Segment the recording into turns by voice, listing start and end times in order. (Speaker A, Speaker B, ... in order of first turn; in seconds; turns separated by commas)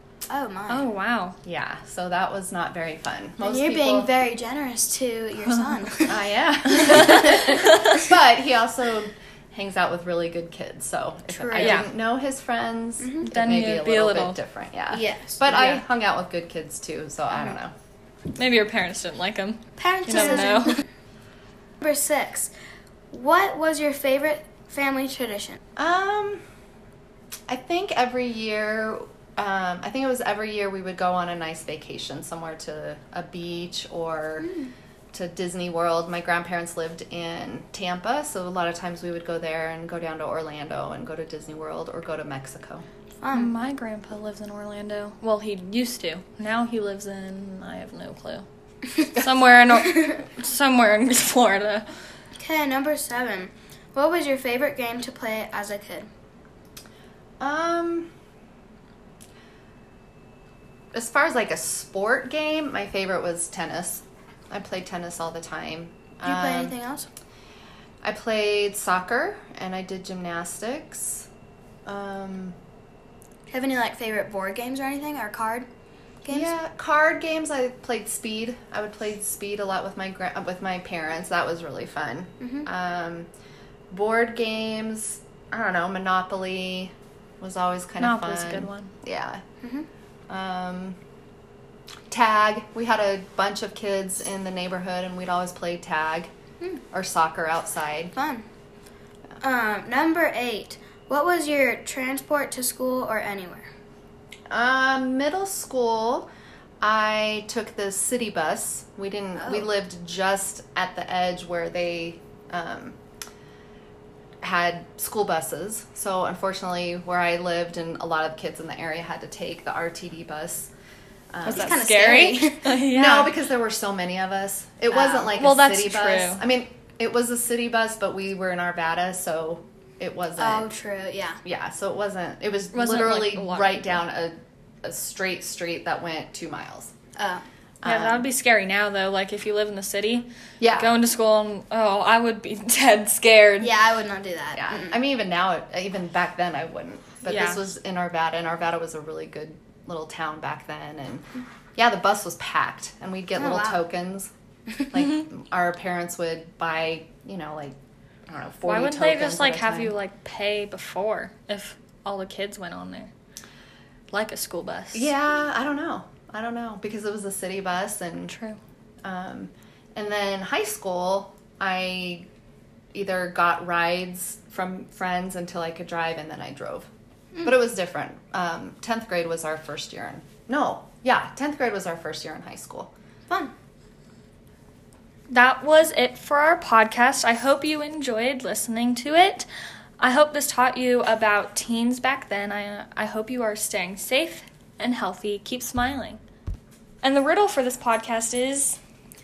Speaker A: 0.3-0.9, Speaker B: 0.7-1.4, Speaker C: 1.4-4.1, Speaker A: 3.4-6.2, Speaker C: 6.1-17.7, Speaker A: 11.3-11.9, Speaker B: 11.6-11.9, Speaker A: 13.0-13.3, Speaker B: 13.2-14.4, Speaker A: 14.9-15.5, Speaker B: 15.5-15.8, Speaker B: 18.4-20.8, Speaker A: 19.8-20.8, Speaker A: 21.8-22.5, Speaker A: 23.1-25.6, Speaker C: 25.8-26.4, Speaker C: 27.5-34.5, Speaker A: 34.4-34.7, Speaker C: 35.1-42.9, Speaker A: 43.2-43.5, Speaker B: 43.3-48.5, Speaker B: 49.0-51.9, Speaker A: 49.9-50.2, Speaker A: 52.4-56.1, Speaker C: 57.4-58.1, Speaker C: 60.9-66.8, Speaker A: 66.2-67.1, Speaker C: 68.0-71.3, Speaker C: 71.9-72.6, Speaker A: 73.5-75.7, Speaker A: 76.2-76.5, Speaker C: 76.3-83.3, Speaker A: 82.4-82.7, Speaker C: 83.9-89.4, Speaker B: 88.0-88.9, Speaker A: 89.6-89.9, Speaker C: 90.3-91.0, Speaker C: 92.1-96.3, Speaker C: 96.9-98.2, Speaker A: 98.2-98.5, Speaker A: 99.4-103.7, Speaker C: 104.5-106.3, Speaker C: 106.8-113.0, Speaker A: 109.4-109.7, Speaker C: 114.4-120.7, Speaker C: 121.3-130.7, Speaker A: 121.5-122.7, Speaker B: 121.5-123.4, Speaker A: 124.9-125.3, Speaker B: 125.3-126.4, Speaker A: 130.4-131.4, Speaker C: 131.4-136.9, Speaker B: 132.7-134.0, Speaker A: 137.2-137.4, Speaker C: 137.8-138.3, Speaker B: 137.8-143.7, Speaker C: 140.6-140.9, Speaker A: 143.6-145.0, Speaker C: 144.6-151.2, Speaker B: 147.3-147.6, Speaker C: 151.8-154.3, Speaker A: 153.4-153.8, Speaker C: 154.9-157.8, Speaker C: 158.3-159.9, Speaker B: 158.6-163.1, Speaker B: 164.1-165.1, Speaker C: 164.9-168.3, Speaker B: 168.3-168.6, Speaker C: 169.0-172.3, Speaker C: 172.9-176.9, Speaker C: 177.4-182.9, Speaker A: 183.3-183.5, Speaker B: 185.3-189.5, Speaker B: 190.0-196.2, Speaker B: 197.0-198.8